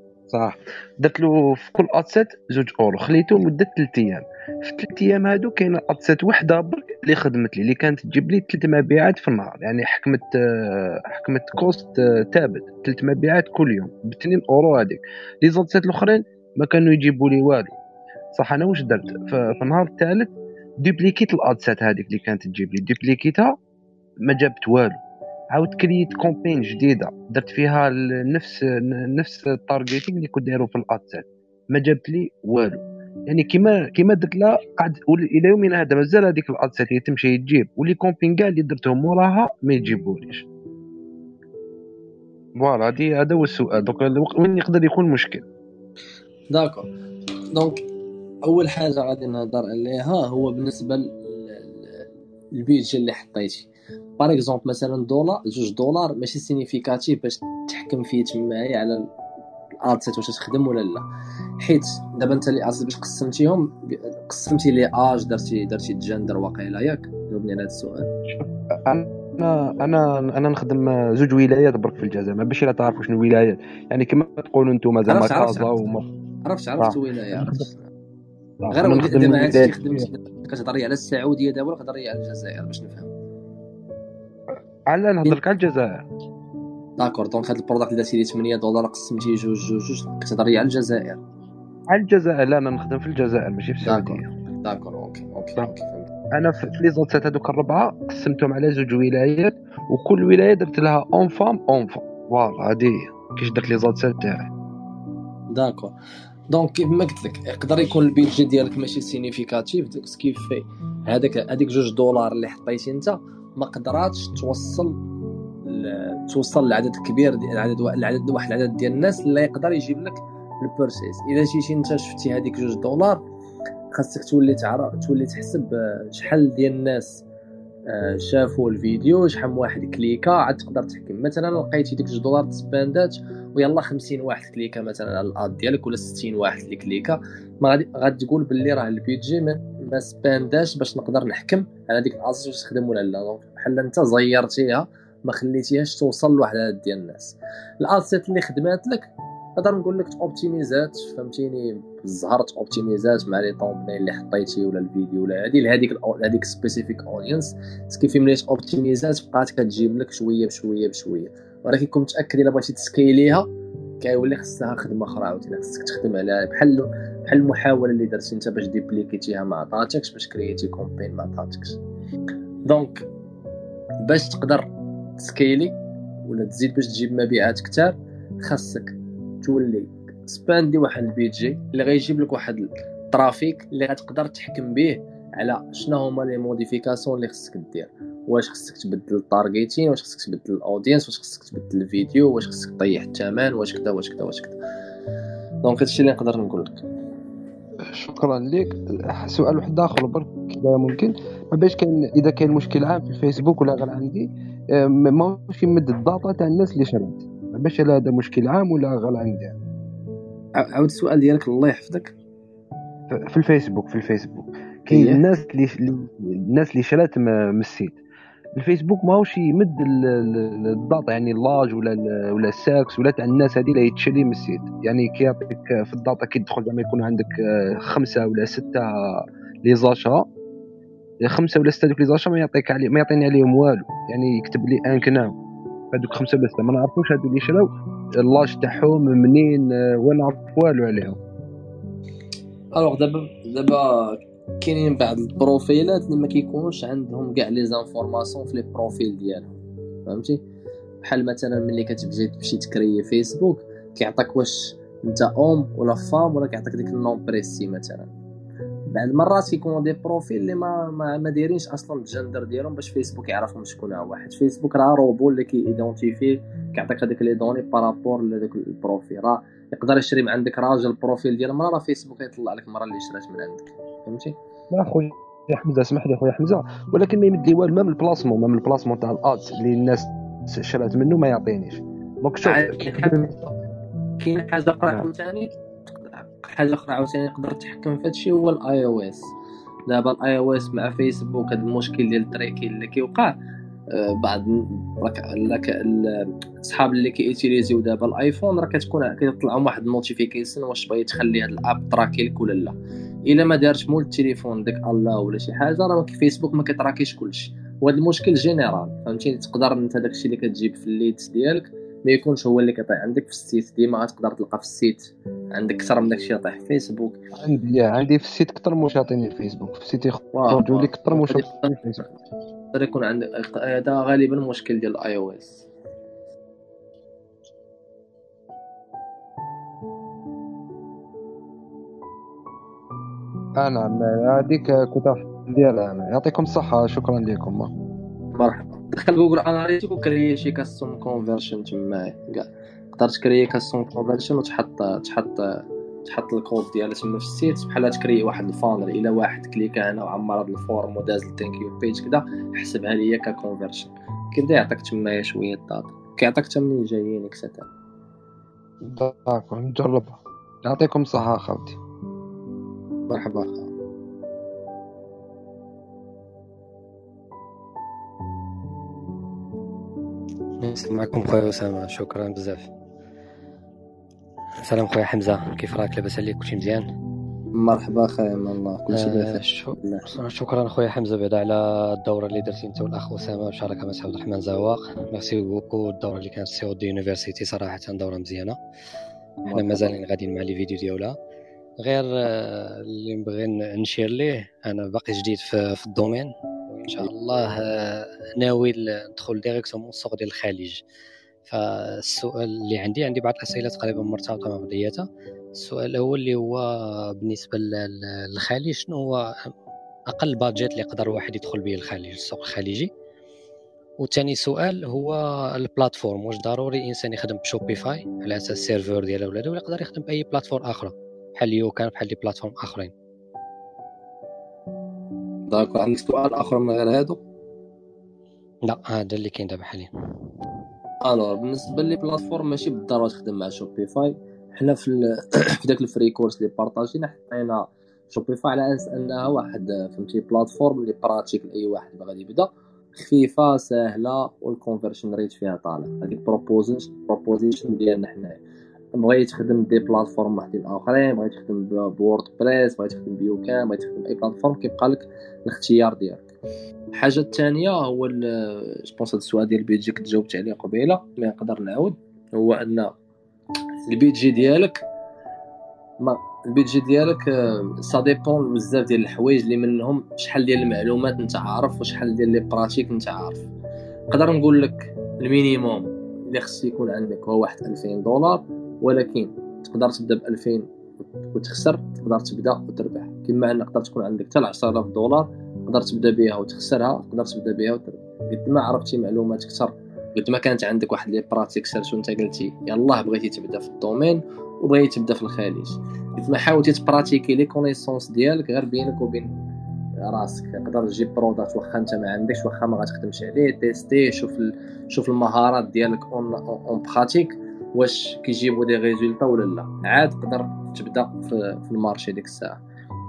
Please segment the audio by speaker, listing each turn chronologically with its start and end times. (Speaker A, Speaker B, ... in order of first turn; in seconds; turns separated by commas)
Speaker A: 0.3-17.7, Speaker A: 18.3-23.6, Speaker A: 24.2-25.0, Speaker A: 25.5-40.5, Speaker A: 42.6-45.5, Speaker B: 46.5-46.9, Speaker B: 47.5-47.8, Speaker B: 48.5-59.1, Speaker B: 59.9-61.0, Speaker B: 61.6-68.1, Speaker A: 68.3-76.1, Speaker B: 75.1-75.8, Speaker B: 76.5-77.9, Speaker A: 76.8-77.7, Speaker A: 78.6-80.1, Speaker B: 78.7-83.1, Speaker A: 84.9-86.0, Speaker B: 87.0-91.2, Speaker A: 91.9-94.3, Speaker B: 93.8-96.1, Speaker A: 96.4-104.5, Speaker B: 105.5-105.9, Speaker B: 106.5-115.0, Speaker B: 115.7-123.2, Speaker B: 123.9-127.2, Speaker B: 127.9-163.5, Speaker B: 164.0-171.8, Speaker B: 172.7-173.0, Speaker B: 174.0-174.7, Speaker B: 175.2-194.6, Speaker B: 195.6-196.8, Speaker A: 197.9-209.6, Speaker B: 210.6-212.2, Speaker A: 213.1-218.0, Speaker B: 214.9-215.2, Speaker A: 218.6-228.8, Speaker A: 229.7-230.3, Speaker A: 231.2-235.3, Speaker A: 235.9-237.7, Speaker A: 238.2-241.2, Speaker B: 242.8-250.4, Speaker B: 251.0-258.1, Speaker B: 258.9-274.4, Speaker A: 274.7-283.4, Speaker B: 282.4-283.3, Speaker B: 284.2-285.5, Speaker B: 286.1-289.3, Speaker B: 289.9-293.4, Speaker B: 293.9-302.8, Speaker B: 303.3-317.2, Speaker A: 317.4-322.1, Speaker B: 320.3-321.7, Speaker B: 322.7-325.7, Speaker A: 333.6-337.7, Speaker B: 338.4-357.7, Speaker A: 358.8-361.8, Speaker B: 363.1-363.7, Speaker C: 370.6-372.7, Speaker C: 374.6-376.9, Speaker B: 377.6-380.1, Speaker C: 378.9-388.6, Speaker C: 389.5-391.2, Speaker C: 391.8-400.8, Speaker C: 401.5-409.5, Speaker C: 410.1-412.9, Speaker C: 414.0-422.9, Speaker B: 425.5-427.2, Speaker C: 428.6-429.9, Speaker B: 431.0-448.4, Speaker B: 449.0-456.3, Speaker B: 456.9-462.9, Speaker B: 463.9-464.8, Speaker B: 466.0-473.5, Speaker B: 474.1-480.7, Speaker B: 481.3-499.3, Speaker B: 500.1-512.6